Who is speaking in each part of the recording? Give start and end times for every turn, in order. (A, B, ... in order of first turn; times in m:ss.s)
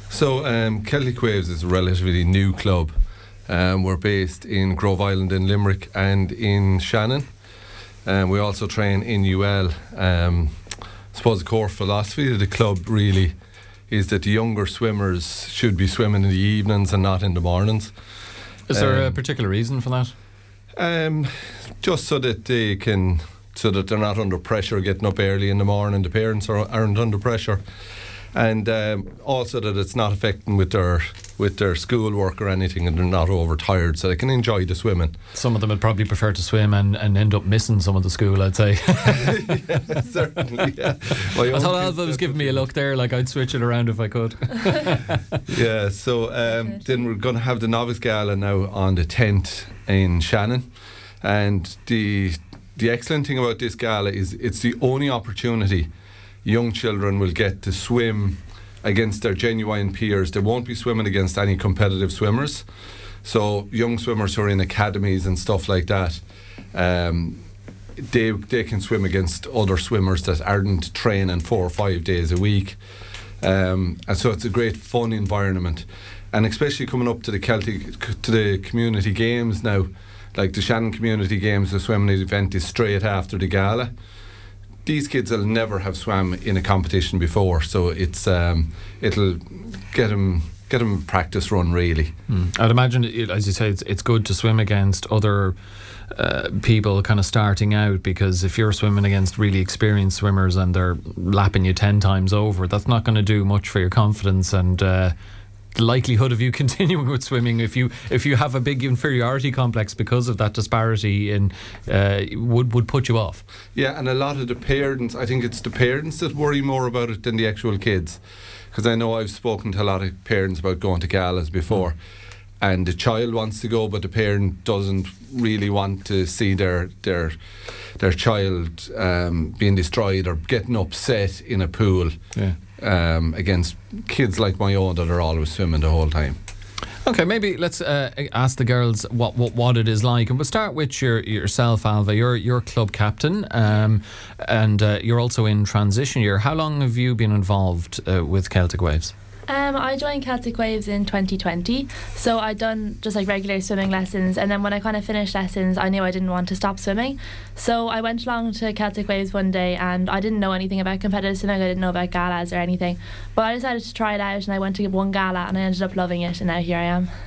0:00.1-0:02.9 A
0:03.5-0:07.3 A
0:08.0-0:10.6 A
0:11.1-0:13.3 A
0:13.9-0:17.9 A
0:18.7-0:20.1 B
0:18.7-0:19.2 A
0:20.8-0:27.6 A
0:28.3-0:35.1 A
0:35.3-0:39.6 B
0:39.2-0:42.7 A
0:41.4-0:45.2 B
0:45.5-0:50.7 A
0:51.2-0:55.9 A
0:56.4-1:02.6 A
1:03.2-1:07.4 A
1:08.0-1:12.8 A
1:13.4-1:23.9 A
1:24.8-1:32.1 A
1:32.3-1:35.6 B
1:36.1-1:45.1 B
1:45.7-1:53.4 B
1:53.7-1:58.2 A
1:58.7-2:02.0 A
2:02.6-2:07.4 A
2:08.0-2:16.4 A
2:17.0-2:29.1 B
2:29.5-2:47.1 C